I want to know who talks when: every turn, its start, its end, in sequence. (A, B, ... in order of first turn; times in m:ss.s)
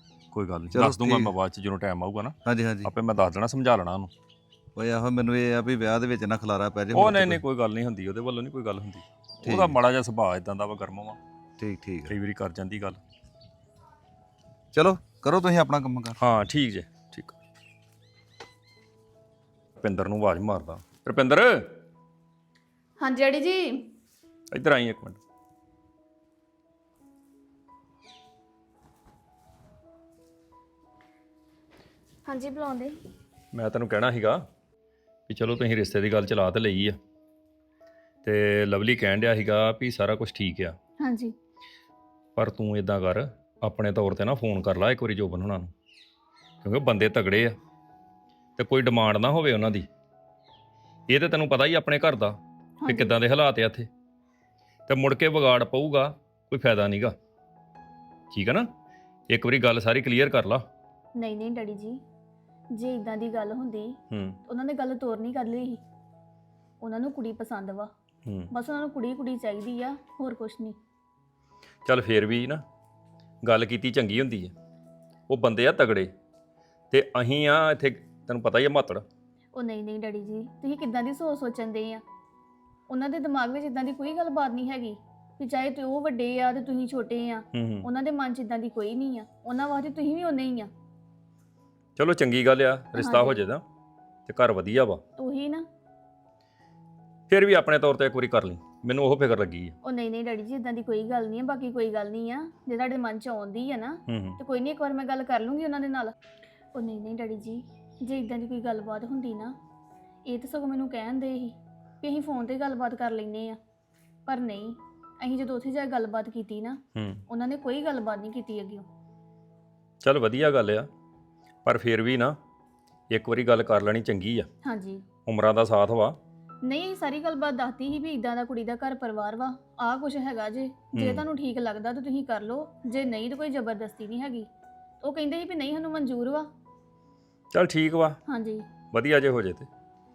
0:00.3-0:04.1 A
0:00.7-0:01.3 B
0:02.4-0:02.9 B
0:04.8-0:07.4 B
0:06.9-0:11.2 A
0:09.4-0:09.8 B
0:11.6-0:12.2 B
0:12.1-0:13.0 A
0:14.7-0:16.2 B
0:16.2-0:17.3 A
0:19.8-0:21.7 A
0:23.0-0:23.9 C
0:24.5-0:25.2 A
0:32.2-0:33.0 C
0:33.5-0:34.4 A
0:35.3-0:37.0 A
0:38.2-0:40.8 A
0:41.0-0:41.3 C
0:42.4-0:45.7 A
0:46.6-0:47.6 A
0:48.6-0:49.9 A
0:51.1-0:53.9 A
0:52.8-0:53.2 C
0:54.9-0:57.2 A
0:58.3-0:58.7 A
0:59.3-1:00.6 A
1:01.1-1:02.0 C
1:02.7-1:05.8 C
1:04.1-1:04.4 A
1:06.8-1:07.9 C
1:08.2-1:08.5 A
1:08.5-1:10.8 C
1:11.8-1:12.6 A
1:13.4-1:14.5 A
1:15.3-1:16.1 A
1:16.9-1:19.0 A
1:19.5-1:22.0 C
1:22.9-1:30.7 C
1:27.5-1:27.9 A
1:32.0-1:33.6 A
1:33.0-1:33.4 C
1:34.3-1:35.0 A
1:35.2-1:35.6 C
1:37.3-1:39.7 A
1:39.8-1:46.1 C
1:44.1-1:44.4 A
1:46.7-1:49.6 C
1:50.2-1:53.6 C
1:54.3-1:58.8 C
1:56.9-1:57.2 A
2:00.0-2:00.9 A
2:01.6-2:02.4 A
2:03.1-2:04.5 A
2:04.6-2:05.0 C
2:05.2-2:06.2 A
2:06.6-2:14.5 C
2:10.9-2:11.2 A
2:15.0-2:16.5 C
2:17.5-2:18.2 A
2:18.2-2:18.6 C
2:18.9-2:19.7 A